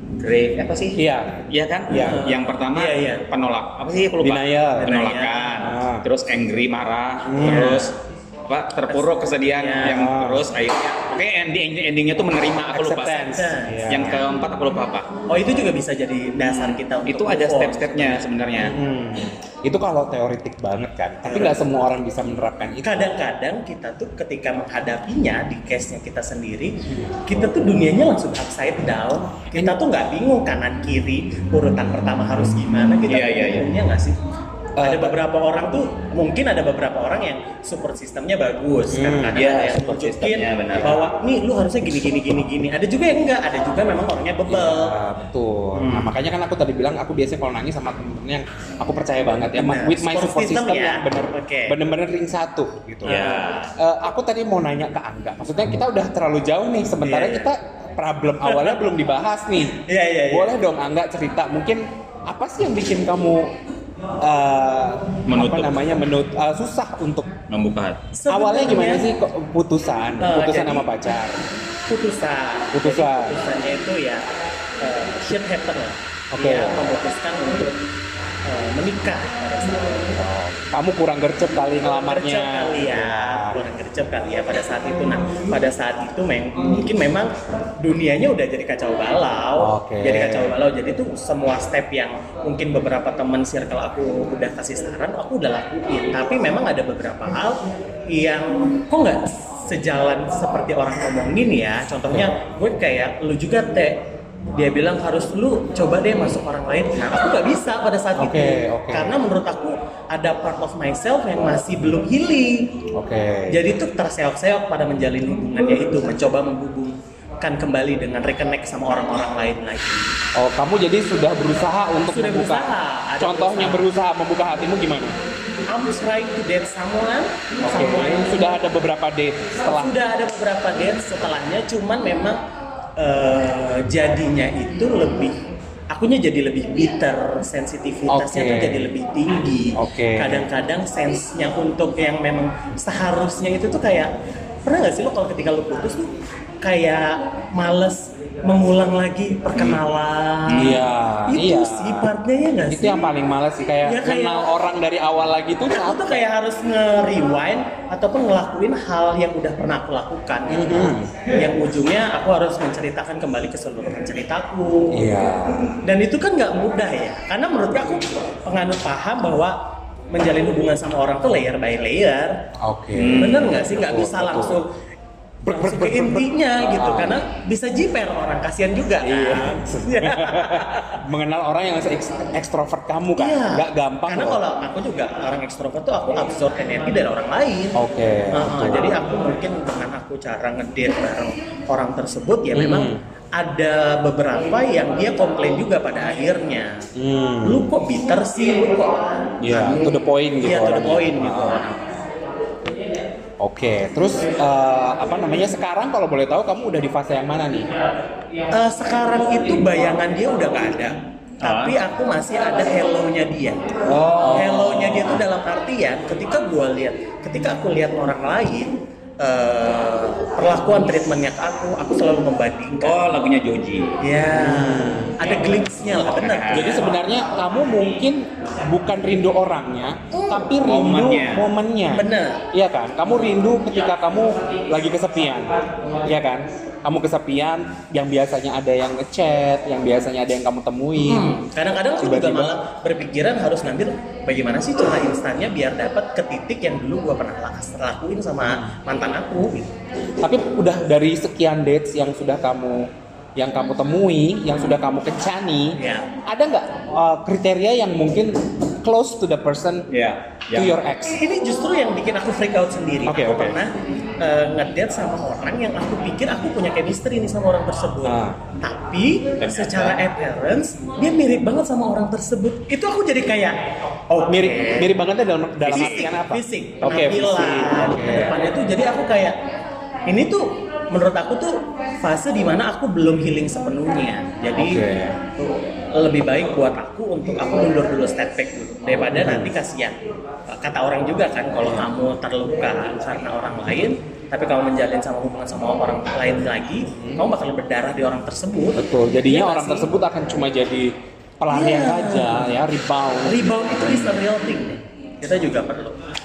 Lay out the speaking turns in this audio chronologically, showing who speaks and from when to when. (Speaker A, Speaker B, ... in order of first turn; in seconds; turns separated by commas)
Speaker A: 0.2-7.9, Speaker B: 0.9-2.2, Speaker C: 1.9-3.2, Speaker B: 4.2-5.0, Speaker C: 4.8-5.6, Speaker B: 5.6-6.0, Speaker B: 7.2-7.8, Speaker C: 7.4-7.9, Speaker A: 8.5-15.1, Speaker C: 8.9-10.0, Speaker B: 9.8-10.5, Speaker B: 12.7-14.3, Speaker C: 13.2-14.1, Speaker C: 15.3-18.2, Speaker A: 16.4-18.8, Speaker B: 18.6-23.1, Speaker C: 21.2-21.6, Speaker C: 22.8-34.2, Speaker B: 26.9-27.2, Speaker A: 33.1-33.7, Speaker B: 34.8-35.2, Speaker C: 34.8-45.0, Speaker B: 38.9-39.4, Speaker A: 39.3-41.0, Speaker B: 44.5-63.5, Speaker C: 45.7-46.1, Speaker C: 49.5-51.8, Speaker A: 53.0-53.7, Speaker C: 53.0-53.6, Speaker C: 57.0-57.5, Speaker C: 58.4-58.8, Speaker C: 59.7-60.5, Speaker B: 64.2-67.3, Speaker A: 65.3-65.8, Speaker A: 67.5-68.0, Speaker C: 68.1-69.1, Speaker B: 68.3-71.4, Speaker C: 70.2-70.9, Speaker C: 71.9-74.3, Speaker B: 72.7-73.4, Speaker C: 74.8-77.8, Speaker B: 76.3-76.9, Speaker C: 78.4-80.2, Speaker B: 80.2-83.6, Speaker C: 81.8-112.8, Speaker B: 89.6-90.6, Speaker B: 108.2-109.2, Speaker B: 112.9-113.7, Speaker C: 113.5-120.1, Speaker B: 120.3-125.2, Speaker C: 122.0-123.8, Speaker C: 125.7-128.6, Speaker B: 127.6-130.0, Speaker C: 129.6-132.4, Speaker C: 133.0-135.4, Speaker C: 135.9-144.1, Speaker B: 138.1-138.9, Speaker B: 139.8-140.5, Speaker C: 144.6-153.1, Speaker A: 150.5-150.8, Speaker B: 150.5-152.1, Speaker B: 152.7-156.2, Speaker C: 153.8-154.5, Speaker C: 155.7-165.0, Speaker B: 160.5-161.2, Speaker B: 164.9-165.8, Speaker C: 165.8-169.6, Speaker C: 170.1-172.4, Speaker B: 172.6-174.6, Speaker A: 172.9-173.6, Speaker C: 173.2-174.7, Speaker B: 175.4-177.2, Speaker C: 175.5-181.0, Speaker B: 179.0-184.4, Speaker C: 183.2-196.8, Speaker B: 187.7-189.0, Speaker B: 192.5-193.0, Speaker B: 196.9-197.7, Speaker C: 197.4-201.8, Speaker B: 199.4-201.7, Speaker B: 203.4-207.7, Speaker C: 208.5-223.1, Speaker A: 211.4-211.8, Speaker A: 213.8-215.2, Speaker B: 214.1-214.6, Speaker A: 222.8-224.0, Speaker C: 224.0-226.9, Speaker B: 224.3-225.2, Speaker A: 225.9-226.8, Speaker B: 226.5-241.3, Speaker C: 230.1-230.6, Speaker A: 230.6-231.5, Speaker C: 231.9-232.4, Speaker C: 241.0-249.7, Speaker B: 242.0-242.6, Speaker B: 248.4-248.7, Speaker B: 250.2-259.9, Speaker C: 255.8-256.1, Speaker A: 259.9-260.8, Speaker B: 260.5-261.2, Speaker C: 261.1-273.6, Speaker B: 263.1-263.6, Speaker B: 268.0-268.4, Speaker A: 269.4-270.0, Speaker C: 274.1-274.9, Speaker B: 274.2-278.4, Speaker A: 275.6-276.1, Speaker C: 275.7-279.4, Speaker C: 280.1-284.8, Speaker B: 284.6-285.2, Speaker C: 285.4-299.9, Speaker B: 289.1-289.5, Speaker B: 296.9-297.2, Speaker B: 298.7-304.0, Speaker C: 301.5-302.5, Speaker C: 303.2-306.0